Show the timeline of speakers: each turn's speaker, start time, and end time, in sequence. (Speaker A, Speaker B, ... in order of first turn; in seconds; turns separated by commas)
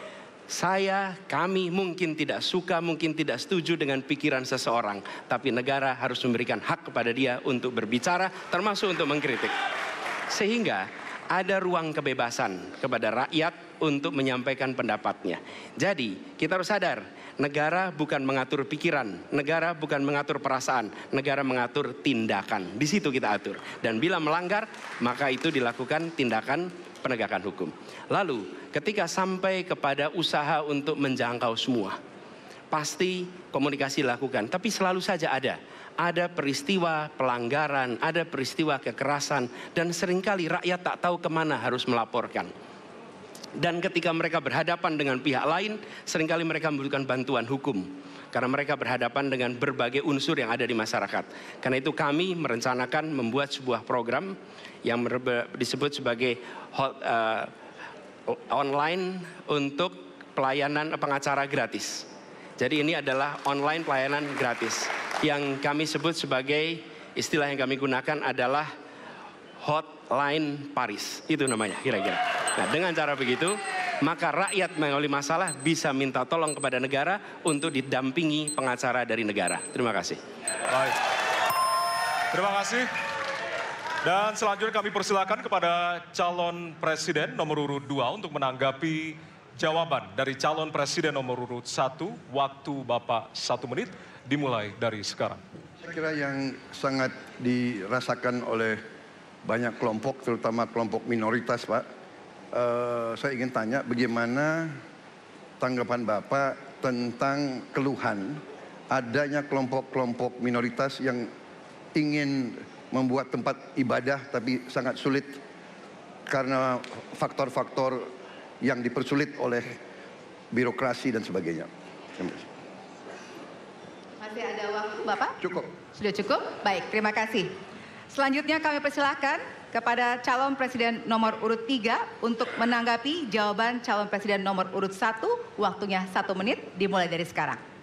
Speaker A: 0.5-9.5, Speaker A: 10.3-32.0, Speaker A: 32.7-42.5, Speaker A: 43.6-57.5, Speaker A: 58.3-68.7, Speaker A: 69.6-80.2, Speaker B: 80.7-81.0, Speaker B: 82.3-82.9, Speaker B: 84.0-95.4, Speaker C: 95.9-98.8, Speaker C: 99.4-101.8, Speaker C: 102.5-104.8, Speaker C: 105.6-111.3, Speaker C: 112.0-115.4, Speaker C: 116.3-118.1, Speaker C: 118.6-119.8, Speaker C: 120.5-122.5, Speaker D: 124.2-127.5, Speaker C: 125.4-125.7, Speaker D: 128.1-137.6